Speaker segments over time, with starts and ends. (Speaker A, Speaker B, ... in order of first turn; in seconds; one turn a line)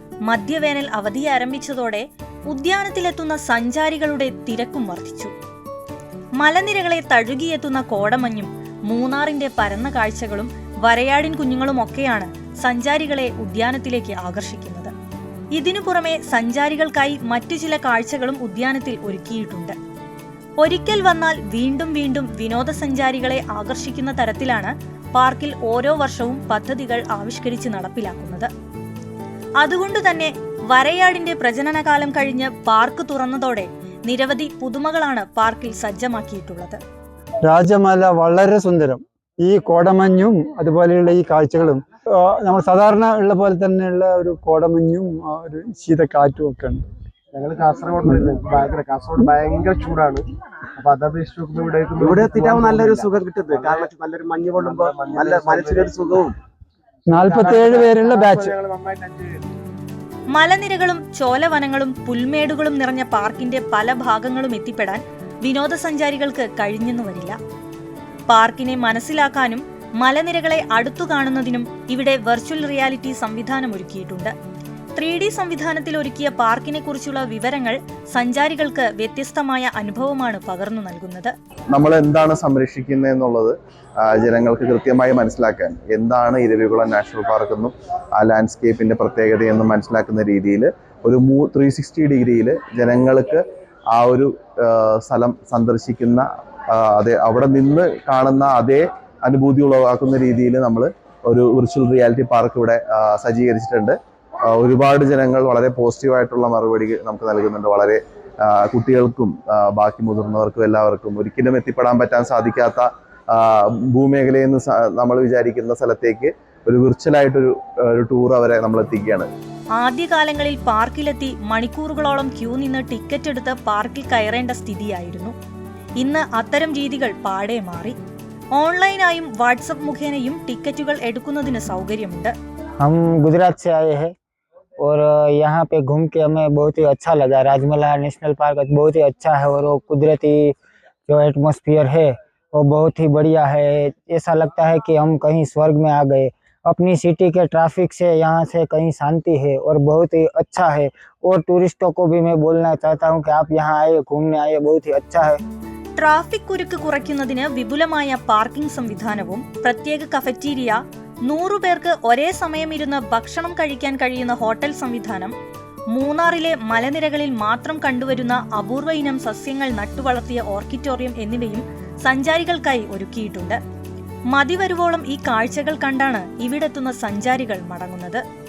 Speaker A: 0.3-5.3
Speaker A: 6.4-14.9
Speaker A: 15.5-19.8
Speaker A: 20.6-28.5
Speaker A: 29.6-36.8
Speaker B: 37.5-46.8
Speaker C: 47.3-50.2
Speaker C: 50.8-53.8
Speaker D: 52.0-56.4
Speaker C: 54.6-55.9
Speaker B: 57.1-58.6
Speaker C: 57.2-59.4
Speaker A: 60.3-67.4
Speaker A: 68.3-74.3
Speaker A: 75.0-81.3
Speaker E: 81.7-93.4
Speaker E: 93.9-104.0
Speaker E: 104.5-119.3
Speaker A: 119.8-125.3
Speaker A: 126.0-128.0
Speaker A: 128.6-132.3
Speaker F: 132.8-134.1
Speaker F: 134.8-140.6
Speaker F: 141.1-155.4
Speaker A: 156.0-165.3
Speaker A: 165.9-173.6
Speaker A: 174.3-178.2